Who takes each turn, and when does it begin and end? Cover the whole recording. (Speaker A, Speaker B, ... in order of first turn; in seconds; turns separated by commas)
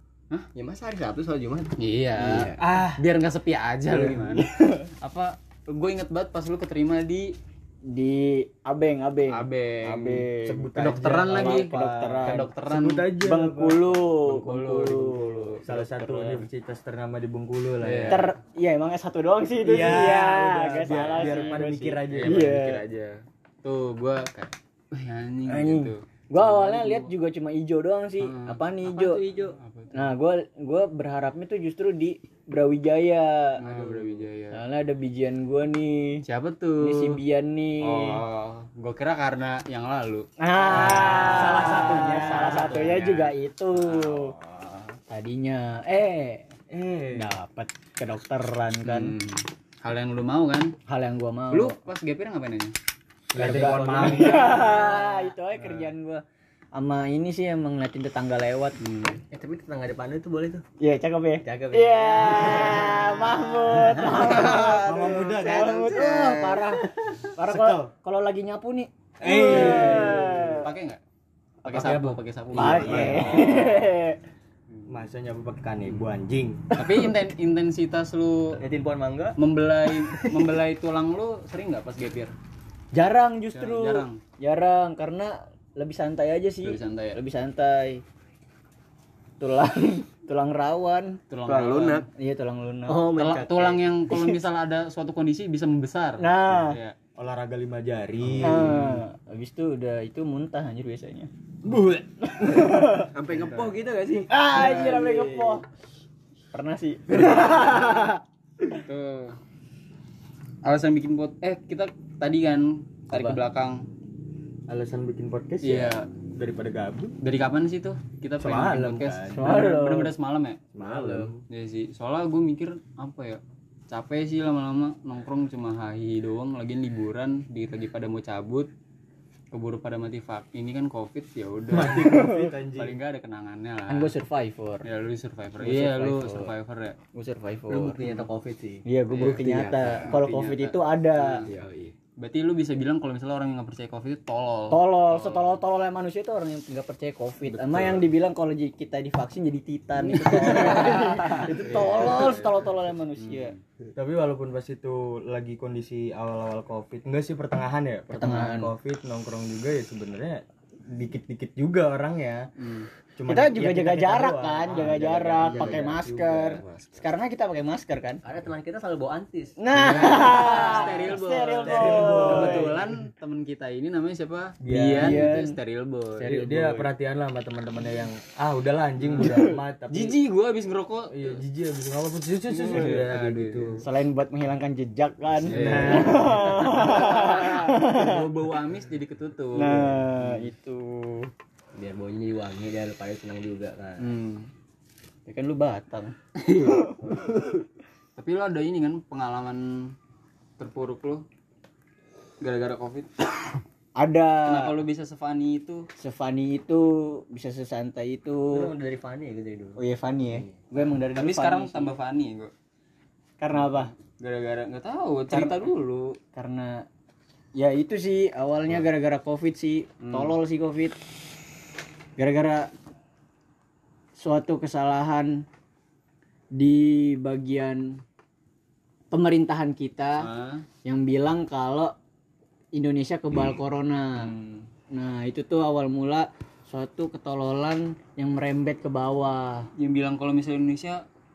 Speaker A: 0.6-1.7, Speaker B: 1.8-7.4, Speaker C: 2.2-2.6, Speaker D: 2.6-3.0, Speaker E: 4.1-4.8, Speaker E: 7.9-12.5, Speaker B: 9.3-13.2, Speaker D: 10.4-13.8, Speaker E: 13.2-16.5, Speaker B: 14.2-15.6, Speaker D: 15.6-18.3, Speaker B: 17.8-18.3, Speaker E: 18.1-22.8, Speaker D: 19.6-22.5, Speaker B: 20.9-27.1, Speaker E: 25.5-29.2, Speaker B: 28.2-28.6, Speaker A: 28.8-29.6, Speaker B: 29.6-30.0, Speaker E: 29.9-33.6, Speaker B: 33.6-34.6, Speaker E: 34.5-36.2, Speaker B: 36.2-37.2, Speaker E: 36.8-38.2, Speaker B: 37.8-44.9, Speaker E: 40.4-44.3, Speaker D: 40.6-42.9, Speaker E: 45.1-46.5, Speaker D: 46.7-47.3, Speaker E: 47.1-49.1, Speaker B: 48.9-50.8, Speaker E: 50.9-51.8, Speaker B: 51.5-52.7, Speaker D: 53.3-54.8, Speaker C: 53.4-54.5, Speaker B: 53.4-54.4, Speaker E: 53.5-56.2, Speaker B: 55.6-55.9, Speaker E: 56.8-58.8, Speaker B: 58.8-59.2, Speaker A: 59.3-60.6, Speaker E: 60.8-64.8, Speaker A: 61.4-64.0, Speaker C: 64.0-66.9, Speaker D: 64.4-66.0, Speaker E: 65.4-70.6, Speaker D: 67.5-67.9, Speaker D: 69.2-70.5, Speaker B: 69.4-71.0, Speaker D: 71.7-73.7, Speaker B: 71.7-73.8, Speaker E: 71.7-74.2, Speaker D: 74.9-76.7, Speaker B: 76.8-78.6, Speaker D: 78.6-79.4, Speaker B: 79.4-82.3, Speaker E: 82.9-88.0, Speaker B: 83.5-84.2, Speaker B: 86.6-87.2, Speaker E: 89.4-91.2, Speaker B: 91.3-92.1, Speaker C: 91.5-92.1, Speaker E: 92.2-94.4, Speaker B: 92.9-97.0, Speaker E: 96.2-96.8, Speaker D: 97.2-99.0, Speaker E: 98.4-101.3, Speaker D: 101.6-103.1, Speaker E: 102.4-103.1, Speaker C: 103.1-104.3, Speaker B: 103.3-103.7, Speaker E: 104.3-105.6, Speaker B: 104.5-105.1, Speaker E: 106.5-108.2, Speaker B: 108.7-109.4, Speaker B: 110.6-113.9, Speaker E: 113.1-113.4, Speaker D: 114.7-117.2, Speaker B: 115.6-116.1, Speaker B: 117.2-120.6, Speaker D: 118.4-119.5, Speaker E: 119.3-120.1, Speaker D: 120.7-121.4, Speaker A: 120.8-121.4, Speaker B: 121.5-128.7, Speaker B: 129.5-134.1, Speaker D: 131.7-132.9, Speaker E: 132.0-132.5, Speaker E: 133.9-134.9, Speaker B: 134.8-137.0, Speaker E: 135.6-136.5, Speaker E: 137.1-138.0, Speaker A: 137.7-138.8, Speaker E: 138.8-141.4, Speaker B: 139.1-141.5, Speaker C: 139.2-140.2, Speaker C: 141.5-141.9, Speaker B: 142.2-145.6, Speaker E: 144.7-153.6, Speaker C: 147.5-148.0, Speaker B: 150.1-152.6, Speaker B: 153.2-153.6, Speaker D: 153.9-162.5, Speaker E: 158.1-158.7, Speaker B: 162.6-162.9, Speaker D: 163.2-166.7, Speaker E: 163.3-168.2, Speaker A: 168.2-170.8, Speaker E: 169.6-172.7, Speaker B: 169.7-176.3, Speaker D: 171.7-172.9, Speaker D: 174.6-175.3, Speaker E: 174.9-175.6, Speaker E: 176.2-176.9, Speaker D: 176.2-180.2, Speaker B: 179.0-179.4, Speaker B: 179.9-181.4, Speaker D: 181.1-183.8, Speaker B: 182.6-183.8, Speaker A: 182.7-183.0, Speaker E: 183.8-188.2, Speaker B: 185.5-190.5, Speaker D: 185.5-186.8, Speaker E: 189.6-191.3, Speaker A: 191.8-194.1, Speaker B: 194.0-194.5, Speaker E: 195.3-197.0, Speaker B: 198.2-199.9, Speaker B: 200.6-201.2, Speaker B: 202.4-203.6, Speaker E: 204.0-204.7, Speaker B: 204.4-205.9, Speaker E: 206.0-208.7, Speaker A: 208.5-209.8, Speaker E: 209.8-211.9, Speaker B: 210.8-212.5, Speaker E: 213.4-213.9, Speaker B: 213.6-216.2, Speaker E: 215.3-215.6, Speaker E: 216.3-216.9, Speaker E: 217.6-221.0, Speaker B: 220.0-220.3, Speaker E: 222.2-222.7, Speaker E: 224.2-225.4, Speaker E: 226.6-228.0, Speaker E: 229.1-230.3, Speaker B: 230.2-230.7, Speaker E: 230.8-231.9, Speaker E: 232.7-234.3, Speaker B: 234.2-234.7, Speaker E: 234.9-239.7, Speaker B: 239.8-241.0